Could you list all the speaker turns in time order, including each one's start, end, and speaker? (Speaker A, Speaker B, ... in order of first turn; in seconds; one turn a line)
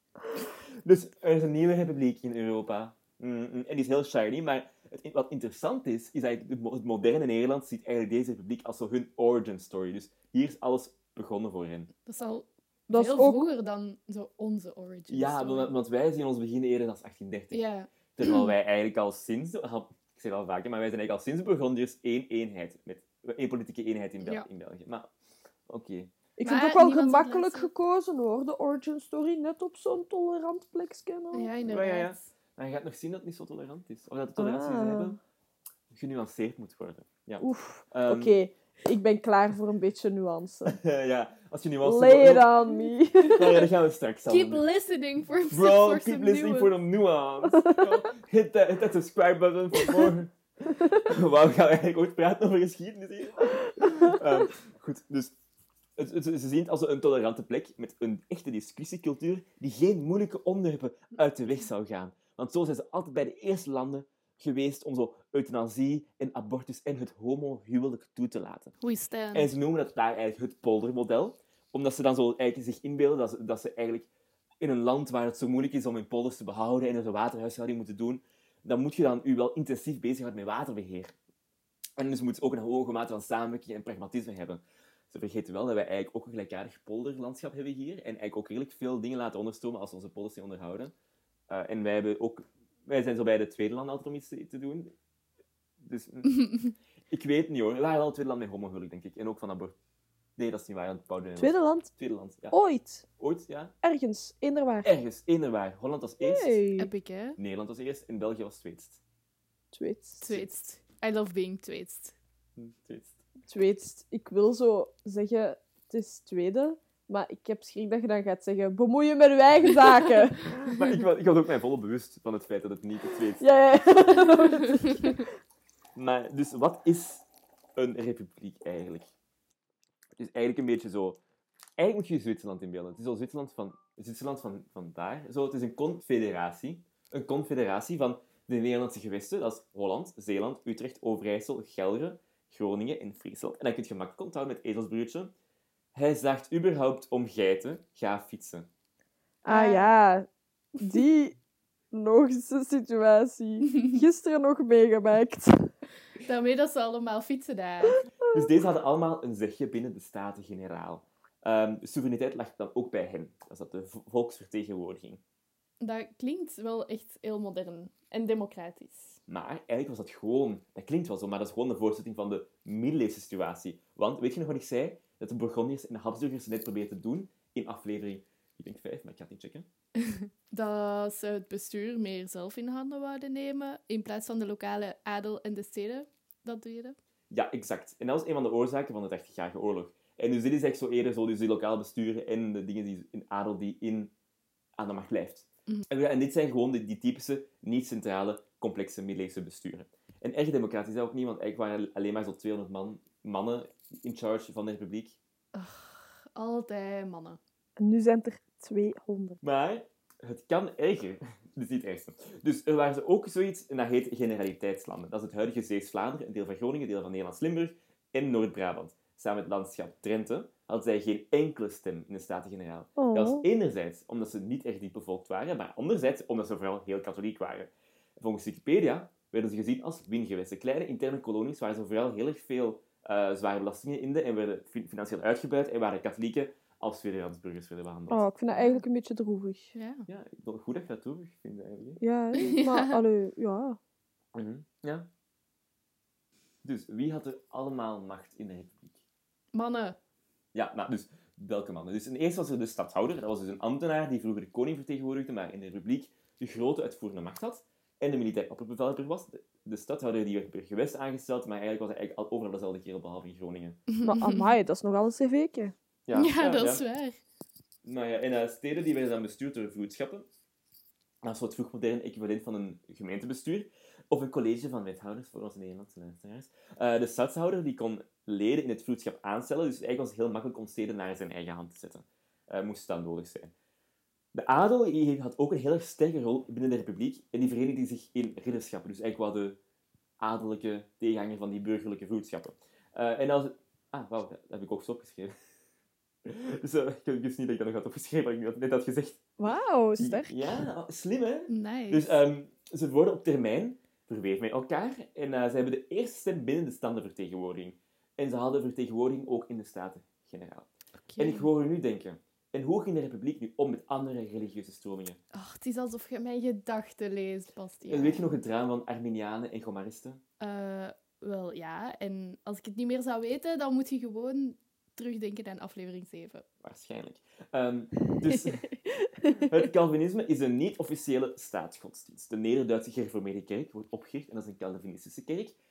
Speaker A: 0.3-11.9
Speaker B: 12.1-15.7
Speaker C: 12.9-13.4
Speaker A: 15.1-17.6
Speaker B: 17.5-18.4
Speaker A: 18.1-25.1
Speaker B: 24.2-24.5
Speaker A: 25.7-26.1
Speaker C: 26.4-31.5
Speaker B: 26.4-27.7
Speaker B: 31.3-32.3
Speaker A: 31.6-35.2
Speaker C: 34.4-35.2
Speaker A: 35.9-38.4
Speaker C: 37.4-40.8
Speaker A: 40.6-44.6
Speaker C: 41.8-43.7
Speaker B: 44.3-46.8
Speaker A: 45.5-55.3
Speaker C: 47.5-48.0
Speaker A: 56.0-68.7
Speaker B: 68.8-69.5
Speaker A: 69.3-74.1
Speaker A: 74.6-81.1
Speaker A: 82.0-90.9
Speaker A: 91.5-94.9
Speaker A: 95.8-99.8
Speaker A: 100.4-102.6
Speaker C: 101.4-101.9
Speaker C: 102.5-103.1
Speaker A: 103.2-103.7
Speaker C: 103.8-105.0
Speaker A: 104.8-106.6
Speaker C: 106.2-106.9
Speaker B: 106.8-107.4
Speaker A: 107.4-109.0
Speaker C: 109.7-110.3
Speaker B: 110.2-112.1
Speaker A: 112.6-113.2
Speaker C: 113.5-120.5
Speaker A: 120.4-123.5
Speaker C: 123.4-125.3
Speaker A: 126.0-127.2
Speaker A: 127.8-129.1
Speaker A: 130.2-131.2
Speaker A: 131.8-145.3
Speaker A: 145.9-148.7
Speaker C: 149.4-151.3
Speaker B: 149.5-149.9
Speaker C: 151.9-155.7
Speaker B: 153.7-154.0
Speaker B: 156.2-158.1
Speaker A: 158.3-165.2
Speaker B: 165.8-169.2
Speaker A: 169.3-179.7
Speaker B: 180.0-186.9
Speaker A: 187.3-194.1
Speaker A: 194.8-205.2
Speaker B: 205.5-207.4
Speaker C: 207.8-209.4
Speaker A: 209.4-238.2
Speaker C: 223.0-223.4
Speaker C: 238.1-239.7
Speaker B: 238.5-238.8
Speaker B: 239.7-240.1
Speaker A: 240.1-242.0
Speaker C: 242.0-243.8
Speaker B: 242.3-242.9
Speaker A: 244.3-245.1
Speaker A: 246.6-249.0
Speaker B: 249.5-250.0
Speaker A: 250.5-263.8
Speaker B: 263.9-264.5
Speaker C: 264.0-265.7
Speaker A: 266.1-266.8
Speaker B: 266.1-267.2
Speaker A: 267.8-270.2
Speaker A: 271.2-283.5
Speaker A: 284.3-289.6
Speaker A: 290.2-295.3
Speaker A: 296.2-299.2
Speaker C: 299.4-300.7
Speaker A: 300.0-315.2
Speaker B: 301.5-302.2
Speaker B: 311.1-311.5
Speaker B: 315.3-318.3
Speaker A: 317.9-320.2
Speaker B: 320.4-326.4
Speaker A: 326.6-328.7
Speaker C: 329.0-329.5
Speaker A: 329.3-335.6